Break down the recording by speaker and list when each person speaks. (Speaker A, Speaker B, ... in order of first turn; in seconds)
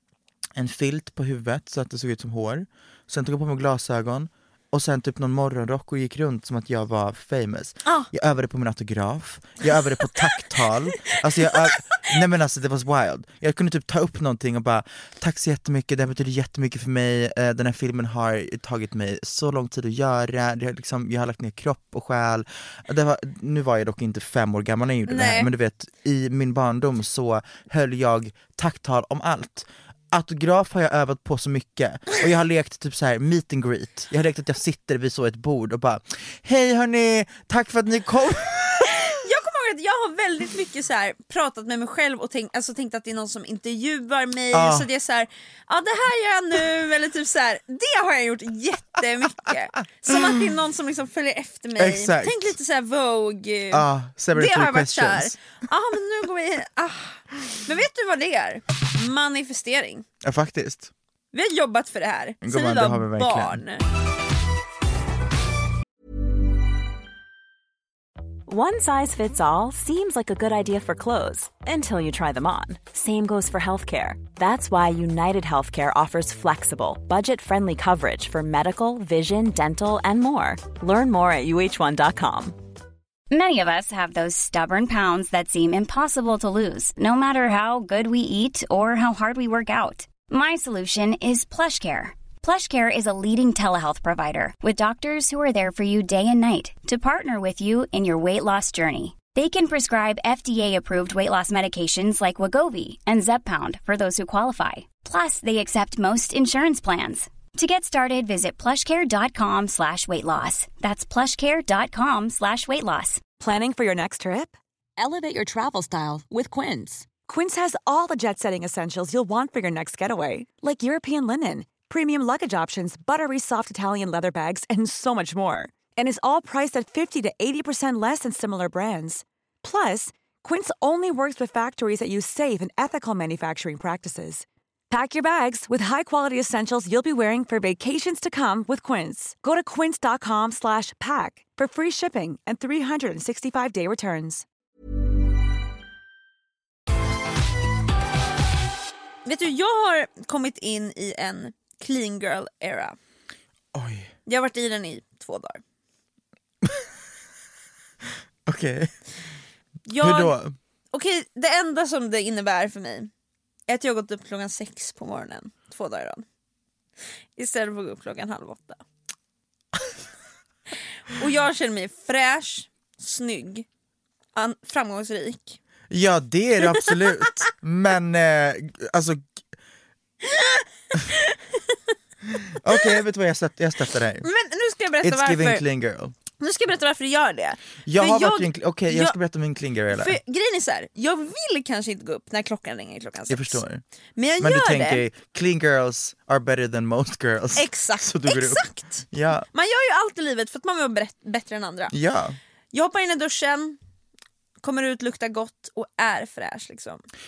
Speaker A: 0.6-39.1, 44.5-44.9, 51.8-52.5, 53.7-55.4, 60.2-60.9, 62.4-63.6, 153.7-154.1, 158.5-158.9, 160.0-160.6, 175.9-179.2, 182.4-184.3, 185.0-186.2, 187.9-190.2, 193.3-193.8, 194.4-199.5, 201.9-202.4
Speaker B: 7.8-8.1, 11.1-11.8, 25.1-25.5, 38.9-60.1, 61.3-63.8, 149.2-153.0, 154.3-155.6, 159.9-160.3, 160.9-163.1, 163.7-166.2, 167.4-168.8, 171.1-173.7, 174.3-175.6, 176.8-177.2, 180.2-181.8, 184.2-185.6, 186.4-189.2, 189.9-193.6, 194.2-195.0, 197.6-201.9, 202.7-203.8, 204.6-207.0
Speaker C: 68.5-82.6
Speaker D: 83.3-113.2
Speaker E: 113.4-144.5